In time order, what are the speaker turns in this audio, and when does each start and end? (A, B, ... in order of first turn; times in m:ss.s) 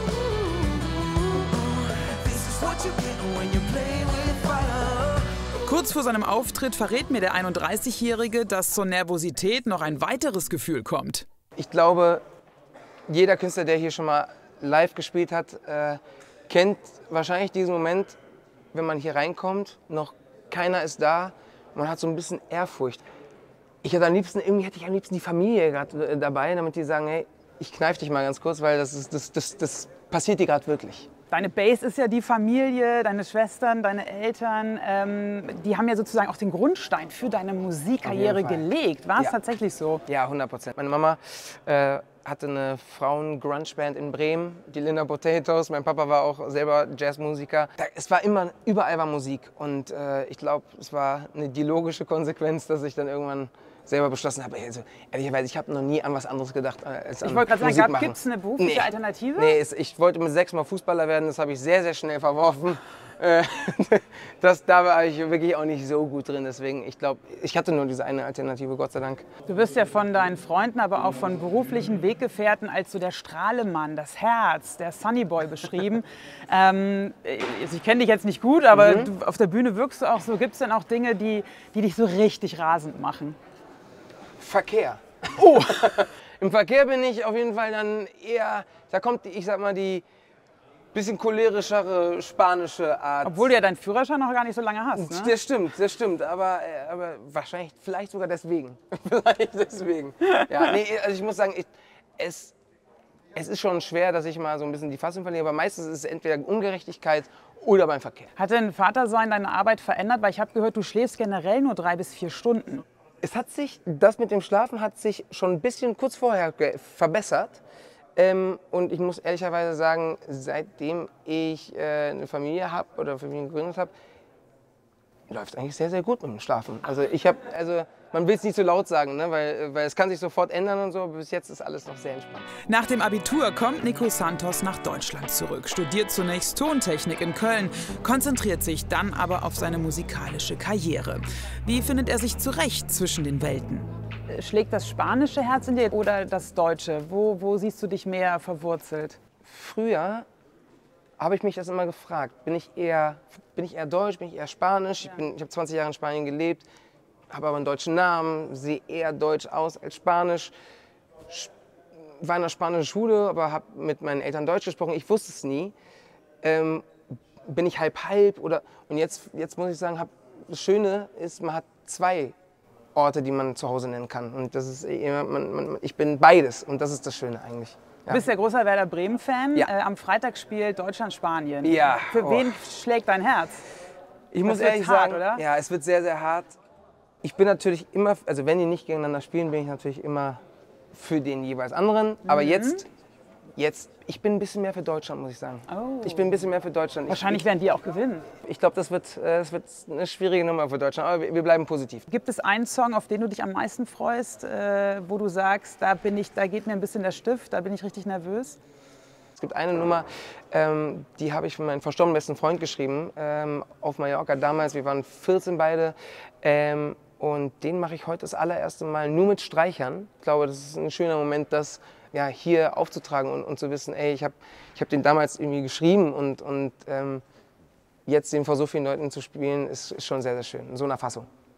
0:00.4-0:00.7 A
0:02.0-0:11.3 A
0:11.6-0:12.2 B
0:13.1-0:18.2 B
0:18.7-0:23.0 B
0:23.8-0:31.1 B
0:31.3-0:40.0 A
0:38.0-0:38.7 B
0:40.1-1:09.2 B
0:57.2-0:59.6 A
1:09.4-1:23.4 A
1:18.7-1:19.1 B
1:24.4-1:30.0 B
1:30.9-1:33.5 B
1:33.2-1:35.3 A
1:35.0-1:42.5 B
1:43.3-1:48.3 B
1:48.4-1:52.8 A
1:53.2-1:57.6 B
1:58.2-2:03.9 B
2:05.3-2:12.5 B
2:12.6-2:29.2 A
2:29.4-2:30.3 B
2:31.2-2:36.7 B
2:37.3-2:40.5 B
2:42.1-2:45.7 B
2:46.4-2:52.3 B
2:52.9-2:58.2 B
2:58.1-3:03.6 A
3:01.6-3:02.6 B
3:04.3-3:06.6 B
3:04.4-3:05.4 A
3:07.2-3:10.4 B
3:10.9-3:12.8 B
3:12.2-3:12.8 A
3:13.6-3:17.5 B
3:15.7-3:16.4 A
3:17.1-3:18.3 A
3:18.3-3:22.0 B
3:22.1-3:28.6 A
3:29.4-3:47.2 B
3:48.0-3:51.3 B